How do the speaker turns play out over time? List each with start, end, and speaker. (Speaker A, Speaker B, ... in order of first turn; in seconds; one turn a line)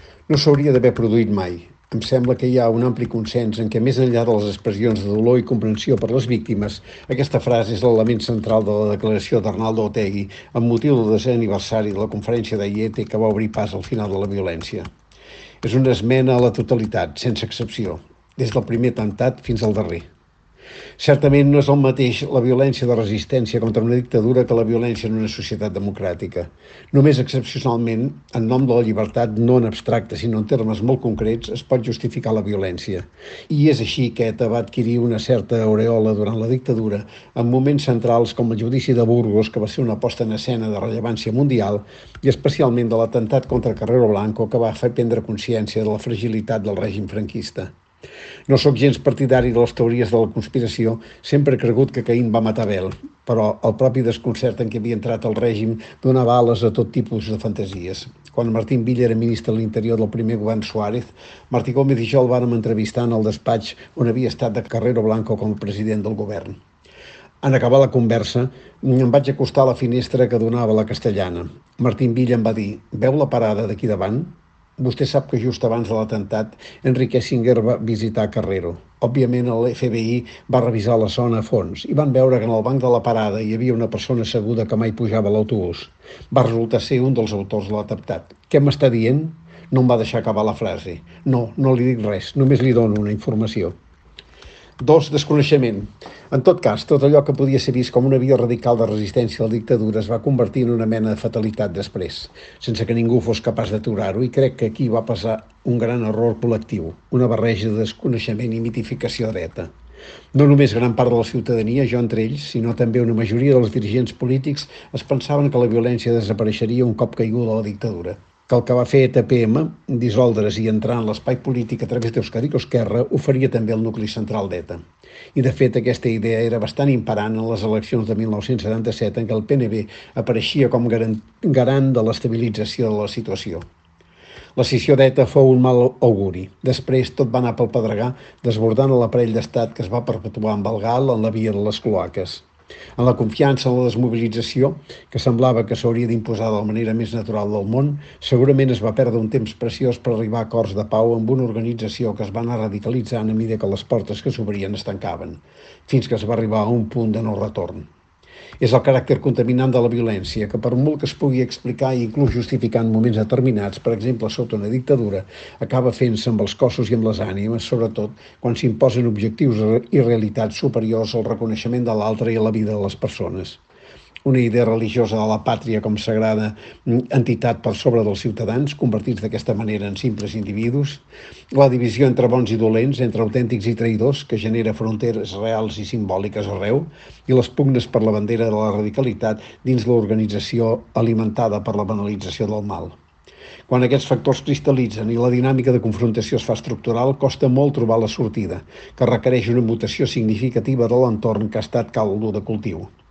Speaker A: 0.3-14.9
Speaker A: 15.6-20.1
Speaker A: 21.0-47.7
Speaker A: 48.5-66.6
Speaker A: 67.4-93.7
Speaker A: 94.8-109.7
Speaker A: 110.3-124.8
Speaker A: 125.3-133.6
Speaker A: 134.6-142.4
Speaker A: 143.0-157.9
Speaker A: 158.6-173.6
Speaker A: 174.2-192.9
Speaker A: 193.7-202.9